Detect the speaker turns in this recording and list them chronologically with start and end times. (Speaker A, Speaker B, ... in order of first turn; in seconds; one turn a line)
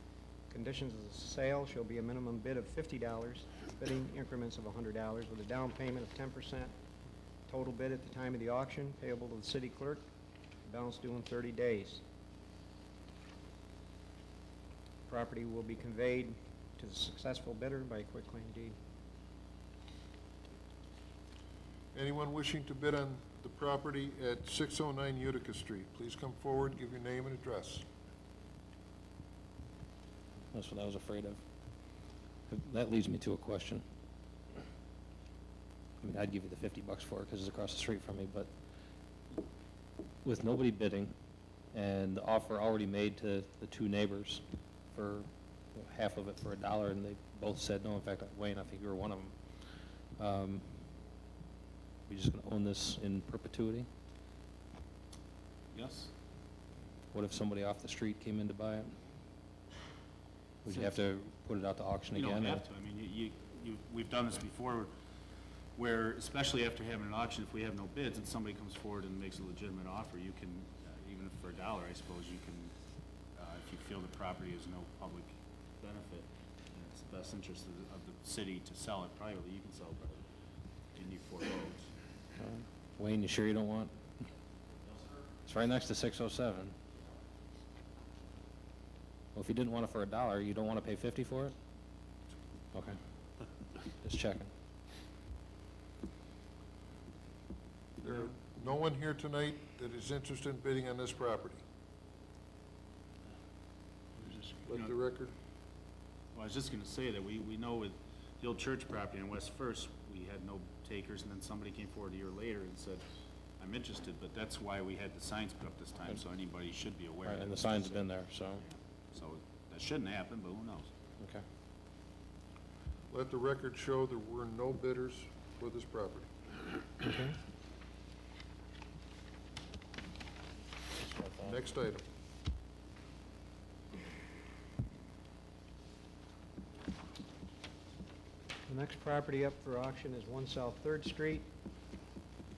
Speaker A: 0.5-6.7
Speaker A: 7.5-10.0
Speaker A: 10.6-12.0
Speaker A: 15.1-18.8
Speaker B: 21.9-27.9
Speaker C: 30.5-31.4
Speaker C: 32.5-33.8
Speaker C: 36.0-38.5
Speaker C: 40.2-41.1
Speaker C: 41.7-51.0
Speaker C: 52.1-53.9
Speaker D: 55.7-56.1
Speaker C: 57.1-58.9
Speaker C: 60.6-62.6
Speaker D: 62.1-64.9
Speaker D: 65.8-72.7
Speaker D: 73.3-80.2
Speaker D: 80.9-81.9
Speaker C: 82.4-84.0
Speaker C: 85.5-86.8
Speaker C: 89.3-91.5
Speaker C: 94.0-94.5
Speaker B: 98.0-101.6
Speaker D: 104.2-104.9
Speaker B: 104.7-105.3
Speaker D: 106.3-113.0
Speaker D: 113.6-118.1
Speaker C: 117.2-118.6
Speaker D: 118.6-120.9
Speaker B: 123.1-126.3
Speaker A: 127.0-127.3
Speaker C: 131.0-131.5
Speaker B: 131.4-132.0
Speaker A: 138.7-141.5